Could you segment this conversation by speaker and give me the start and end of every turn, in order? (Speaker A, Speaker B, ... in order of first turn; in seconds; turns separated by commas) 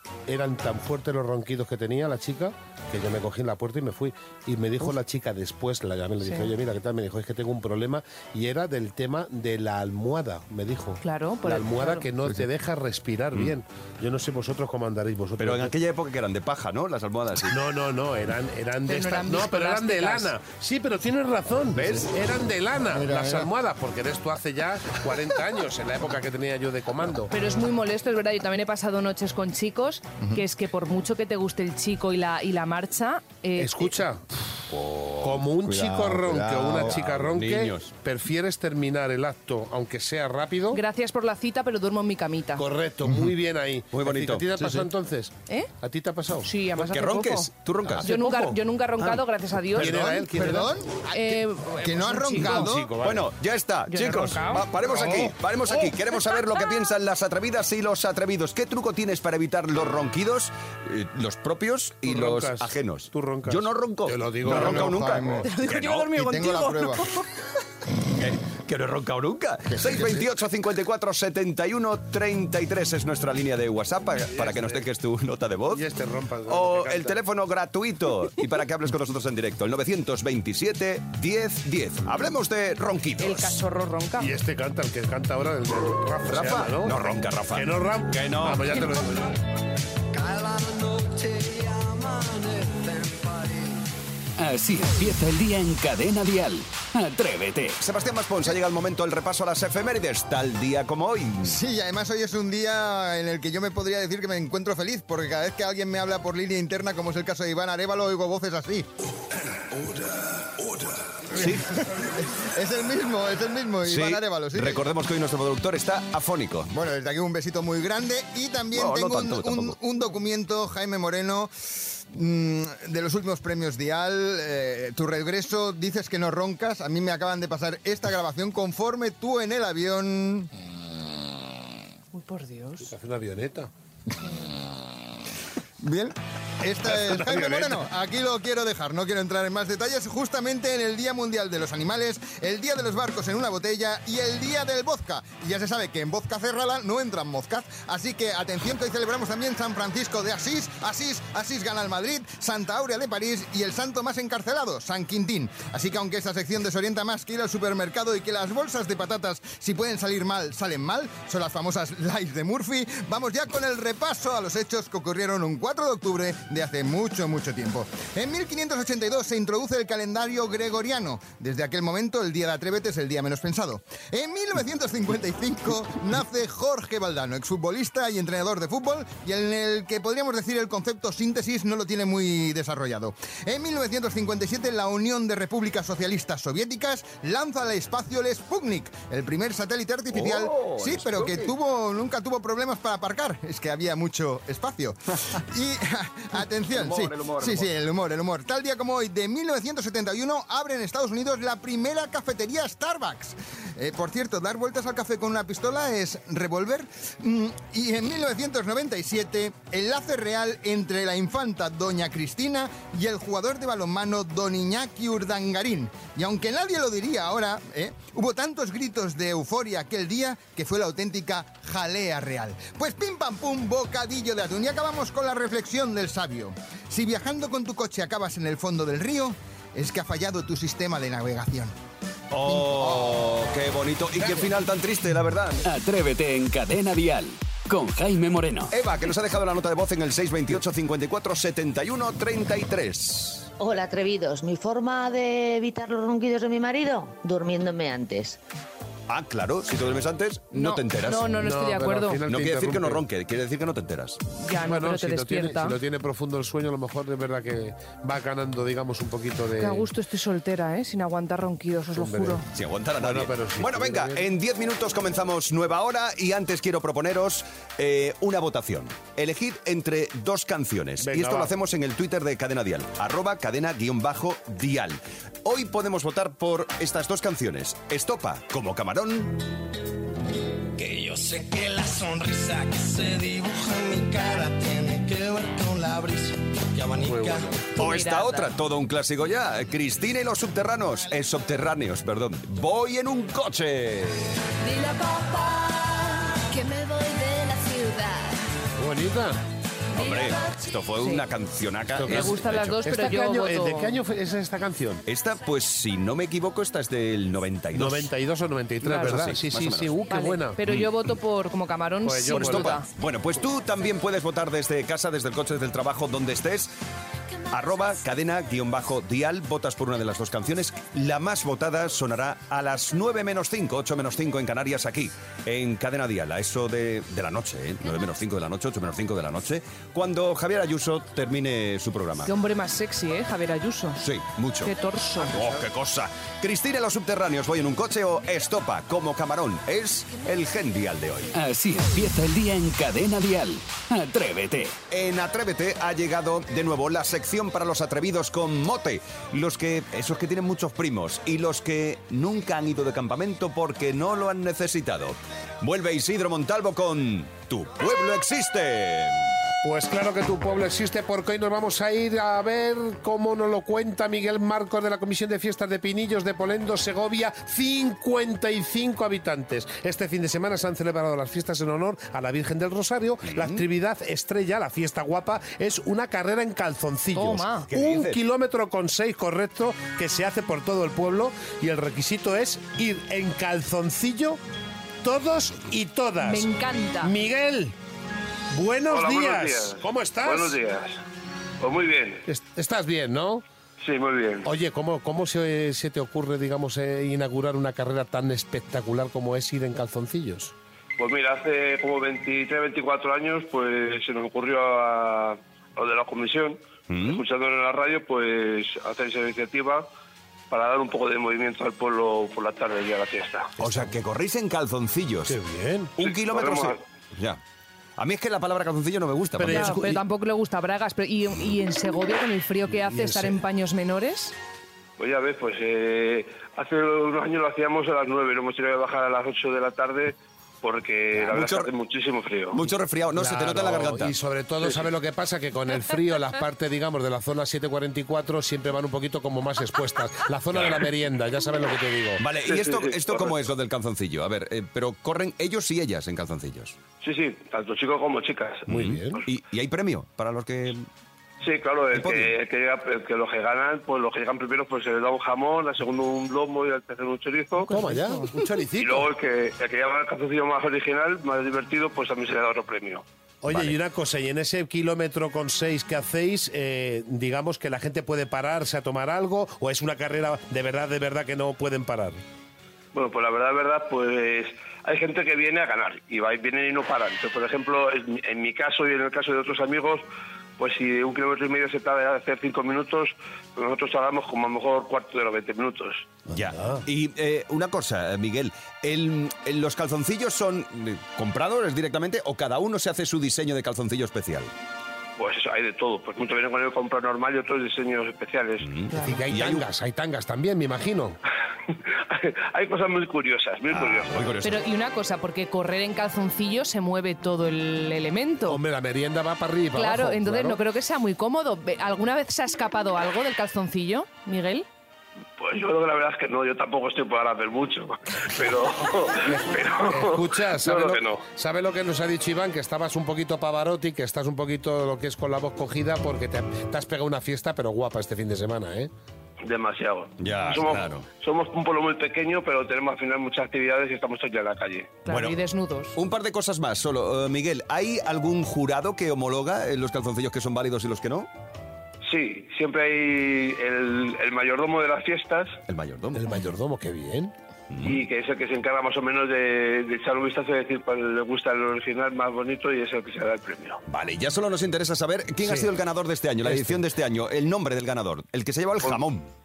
Speaker A: 0.3-15.8, Speaker B: 6.2-6.5, Speaker B: 11.0-12.1, Speaker C: 15.4-17.6, Speaker A: 17.5-27.3, Speaker B: 18.9-20.3, Speaker C: 21.8-22.1, Speaker D: 22.9-23.4, Speaker B: 27.3-34.0, Speaker A: 33.6-34.3, Speaker C: 34.7-37.9, Speaker A: 35.2-40.8, Speaker D: 36.4-37.0, Speaker B: 40.7-42.6, Speaker A: 42.6-46.5, Speaker D: 43.0-43.3, Speaker C: 43.9-44.7, Speaker B: 46.4-47.5, Speaker C: 46.8-48.1, Speaker A: 47.8-49.2, Speaker B: 48.0-50.0, Speaker A: 49.7-50.7, Speaker D: 49.8-52.9, Speaker B: 51.1-52.7, Speaker A: 52.4-53.3, Speaker C: 53.0-66.1, Speaker B: 53.9-54.7, Speaker A: 62.1-65.2, Speaker D: 64.4-67.1, Speaker B: 65.4-67.2, Speaker C: 68.2-75.8, Speaker D: 69.7-70.3, Speaker A: 74.3-74.9, Speaker A: 75.7-77.2, Speaker C: 76.5-83.6, Speaker B: 83.2-84.3, Speaker A: 84.2-89.4, Speaker C: 86.3-88.8, Speaker E: 90.1-93.7, Speaker F: 94.4-97.8, Speaker C: 97.8-101.6, Speaker D: 101.4-108.9, Speaker D: 111.3-114.8, Speaker C: 111.3-111.7, Speaker C: 113.8-116.7, Speaker D: 116.7-130.5, Speaker C: 118.7-119.8, Speaker B: 132.1-132.9, Speaker A: 132.8-133.7, Speaker D: 135.8-231.7, Speaker A: 136.9-137.9, Speaker C: 190.1-191.5, Speaker C: 196.7-197.7, Speaker C: 232.3-235.6, Speaker D: 232.4-233.3, Speaker F: 235.7-238.7, Speaker C: 238.7-243.5, Speaker G: 243.6-248.4, Speaker C: 249.1-251.4, Speaker B: 250.5-252.2, Speaker A: 251.2-253.0, Speaker C: 252.3-254.2, Speaker B: 254.4-255.8, Speaker A: 254.6-259.9, Speaker B: 259.6-262.4, Speaker A: 261.9-262.5, Speaker C: 262.5-279.4, Speaker A: 263.0-264.3, Speaker A: 271.0-271.5, Speaker E: 280.8-287.6, Speaker A: 287.0-287.6, Speaker B: 287.8-288.5, Speaker C: 287.8-294.4, Speaker H: 294.7-298.3, Speaker A: 298.8-299.4, Speaker C: 299.9-302.8, Speaker A: 301.9-305.1, Speaker B: 302.1-304.0, Speaker C: 305.1-308.1, Speaker A: 307.7-310.6, Speaker B: 308.8-309.2, Speaker C: 308.9-309.9, Speaker B: 310.1-312.9, Speaker C: 310.6-310.9, Speaker A: 312.0-312.8, Speaker C: 312.3-316.7, Speaker C: 317.5-332.3, Speaker B: 332.3-334.0, Speaker C: 334.0-334.7, Speaker B: 334.6-335.4, Speaker C: 335.3-341.3, Speaker F: 341.4-344.8, Speaker C: 344.9-359.3, Speaker A: 359.6-384.4, Speaker C: 373.3-373.6, Speaker B: 377.1-377.7, Speaker C: 377.7-378.2, Speaker A: 385.0-387.8, Speaker B: 386.2-387.1, Speaker A: 388.5-390.6, Speaker I: 388.9-391.0, Speaker I: 391.6-392.3, Speaker A: 392.3-393.4, Speaker I: 393.8-394.5, Speaker A: 394.4-400.5, Speaker I: 401.0-409.9, Speaker C: 406.9-407.2, Speaker I: 410.5-413.6, Speaker C: 413.6-415.4, Speaker A: 413.6-413.9, Speaker A: 415.3-415.9, Speaker C: 416.0-417.4, Speaker I: 416.0-416.8, Speaker C: 418.0-419.8, Speaker A: 419.4-420.0, Speaker B: 419.5-424.4, Speaker A: 422.7-423.4, Speaker I: 425.0-432.6, Speaker C: 431.1-431.7, Speaker C: 432.5-434.1, Speaker A: 433.1-442.2, Speaker C: 440.5-440.8, Speaker C: 442.2-446.8, Speaker I: 442.4-443.4, Speaker I: 447.0-449.2, Speaker A: 448.7-449.2, Speaker C: 448.7-450.9, Speaker I: 451.4-457.7, Speaker C: 451.9-452.4, Speaker B: 457.7-458.4, Speaker A: 457.7-459.1, Speaker I: 458.8-463.1, Speaker A: 463.4-472.2, Speaker C: 463.5-463.8, Speaker I: 472.9-480.1, Speaker I: 480.6-486.2, Speaker A: 486.3-486.8, Speaker C: 486.3-494.5, Speaker I: 495.2-498.7, Speaker C: 498.6-499.7, Speaker B: 498.9-499.2, Speaker A: 498.9-501.2, Speaker I: 501.7-504.3, Speaker C: 503.7-504.6, Speaker B: 504.4-508.6, Speaker A: 508.5-510.6, Speaker B: 509.8-514.7, Speaker I: 515.4-521.2, Speaker A: 519.2-528.9, Speaker I: 529.4-535.0, Speaker C: 530.2-531.1, Speaker B: 535.0-536.0, Speaker C: 535.1-535.4, Speaker C: 536.0-541.3, Speaker I: 542.0-545.6, Speaker C: 545.7-546.3, Speaker A: 546.1-547.4, Speaker C: 547.7-548.0, Speaker I: 547.8-553.8, Speaker C: 553.9-559.3, Speaker A: 555.4-555.7, Speaker A: 556.4-556.8